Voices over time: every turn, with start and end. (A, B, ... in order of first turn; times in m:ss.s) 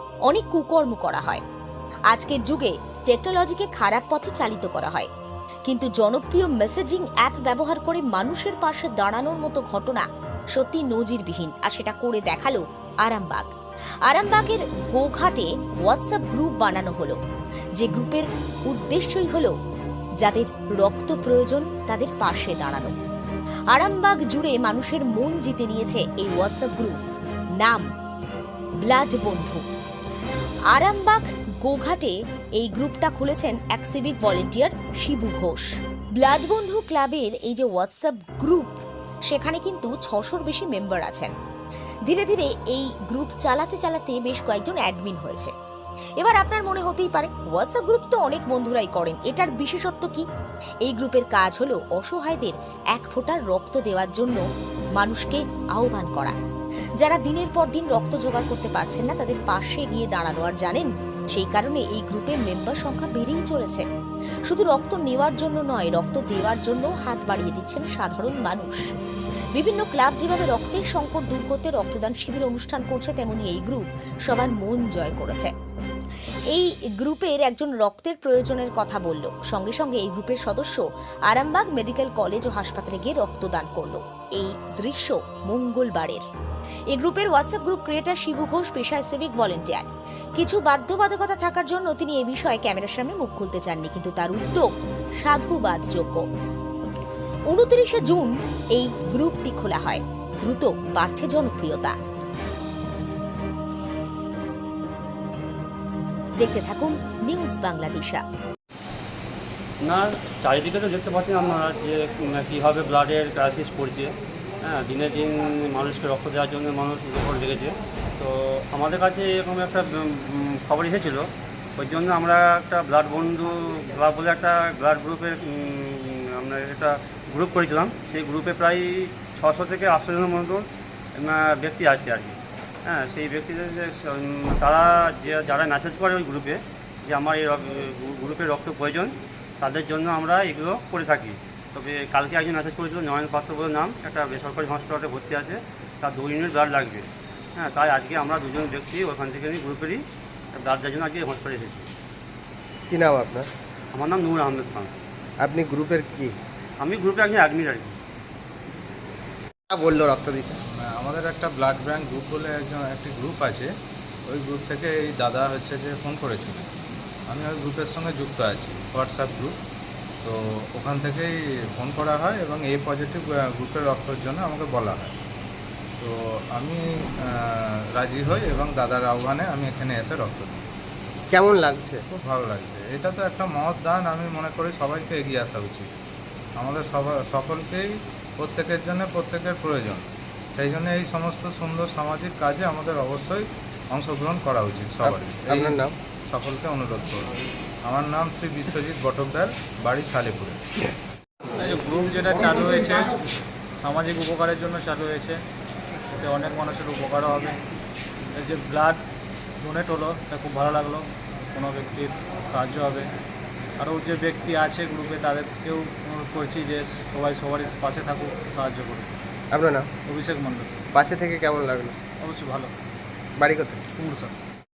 0:00.3-0:01.4 A
0:02.1-0:05.1 A
0:05.7-0:13.5 A
0:14.1-0:17.2 A
0:17.8-0:19.5 A
0:20.2-0:22.9 A
0:23.7-0:27.0 A
0:27.6-0:27.9 A
0:28.8-0:29.6 A
0:30.7-0:38.8 A
0:39.3-0:41.3 A
0:42.0-0:45.5 A
0:46.2-0:50.2 A
0:50.8-0:54.4 A
0:55.0-0:56.3 A
0:57.0-1:03.8 A
1:04.4-1:08.9 A
1:09.6-1:15.5 A
1:16.5-1:26.2 A
1:26.9-1:34.7 A
1:35.2-1:36.2 A
1:37.5-1:41.9 A
1:46.4-1:48.2 A
1:49.8-1:54.1 B
1:54.6-2:27.1 B
2:27.6-2:30.0 B
2:30.5-2:31.9 B
2:32.9-2:33.5 C
2:33.9-2:34.9 B
2:35.4-2:36.3 C
2:36.8-2:38.0 B
2:39.7-2:40.6 C
2:41.0-2:43.6 D
2:44.3-2:46.7 D
2:47.3-2:49.5 D
2:50.2-2:55.1 D
2:56.0-2:56.8 D
2:58.0-3:00.7 D
3:01.3-3:02.0 C
3:02.1-3:05.9 D
3:06.6-3:07.8 D
3:08.4-3:15.7 D
3:15.0-3:15.9 C
3:16.3-3:17.3 D
3:17.9-3:20.6 D
3:21.6-3:23.2 E
3:23.8-3:25.4 E
3:26.2-3:27.6 E
3:28.4-3:29.0 E
3:29.6-3:33.1 E
3:33.8-3:39.1 E
3:39.5-3:39.9 C
3:40.1-3:40.8 E
3:40.9-3:41.9 C
3:42.2-3:42.7 E
3:43.4-3:43.8 C
3:44.0-3:44.3 E